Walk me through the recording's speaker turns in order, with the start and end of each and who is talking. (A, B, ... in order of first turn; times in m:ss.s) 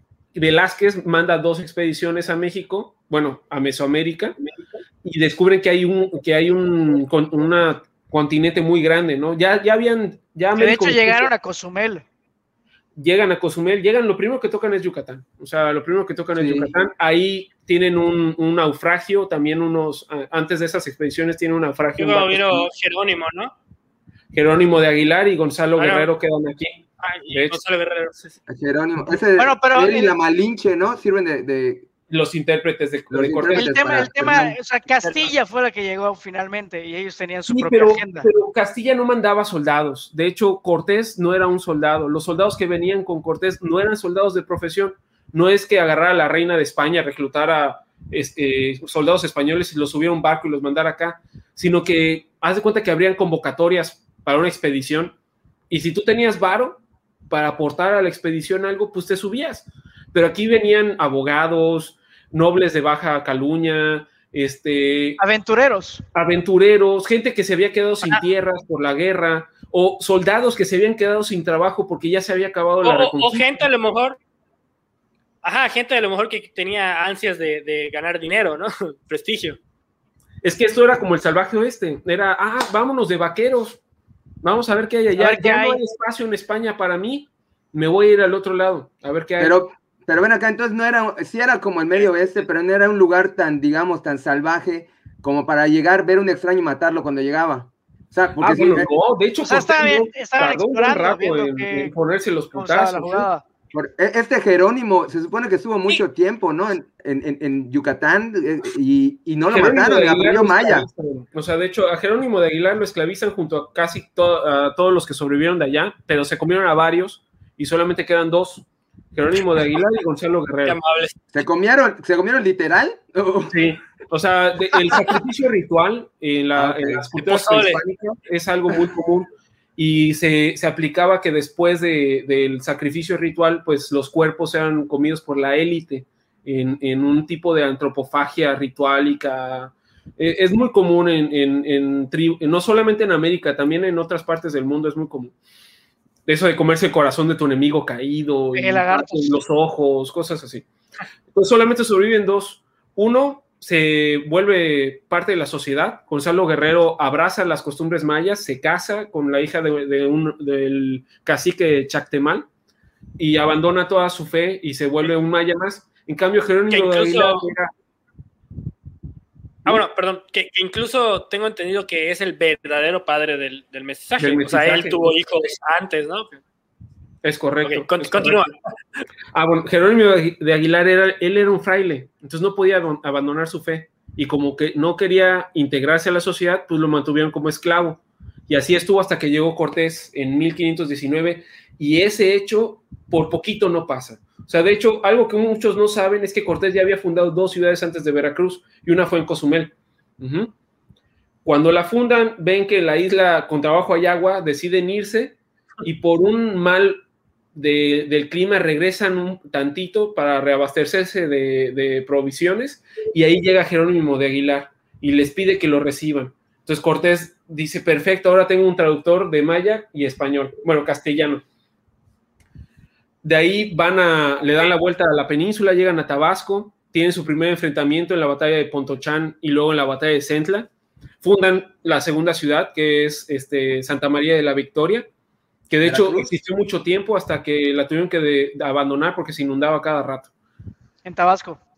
0:00.3-0:04.4 A
0:05.0-0:11.3 A
0:10.6-0:12.0 B
0:13.0-0:22.7 A
0:16.4-0:16.8 C
0:22.0-0:23.5 D
0:24.3-0:27.6 A
0:25.8-0:26.1 D
0:27.0-0:28.4 D
0:28.5-0:31.9 C
0:29.4-0:30.1 B
0:32.1-0:33.7 A
0:33.1-0:34.6 C
0:33.6-0:38.3 B
0:35.0-0:35.3 D
0:37.5-0:55.1 A
0:55.7-1:05.2 A
1:05.2-1:06.0 B
1:06.1-1:13.5 A
1:12.8-1:14.2 D
1:15.4-1:19.6 D
1:20.4-1:23.8 A
1:24.4-1:29.5 A
1:25.2-1:25.8 B
1:29.4-1:38.9 C
1:38.4-1:43.3 A
1:39.4-1:41.9 B
1:42.5-1:43.4 B
1:43.7-1:50.9 C
1:49.5-2:00.8 A
2:00.6-2:01.2 D
2:01.3-2:03.7 C
2:03.5-2:25.4 A
2:06.6-2:07.1 C
2:07.2-2:07.8 D
2:26.3-2:30.6 A
2:28.6-2:29.4 B
2:31.3-2:42.5 A
2:43.2-2:47.7 A
2:46.7-2:47.5 D
2:49.6-2:56.4 D
2:54.2-2:55.1 A
2:57.2-2:58.4 A
2:57.6-2:58.6 D
2:59.3-3:20.5 A
3:21.4-3:27.0 A
3:27.6-3:41.4 A
3:43.2-3:50.7 A
3:51.2-3:55.1 A
3:55.7-4:00.3 A
3:55.8-3:56.3 C
4:01.0-4:01.6 B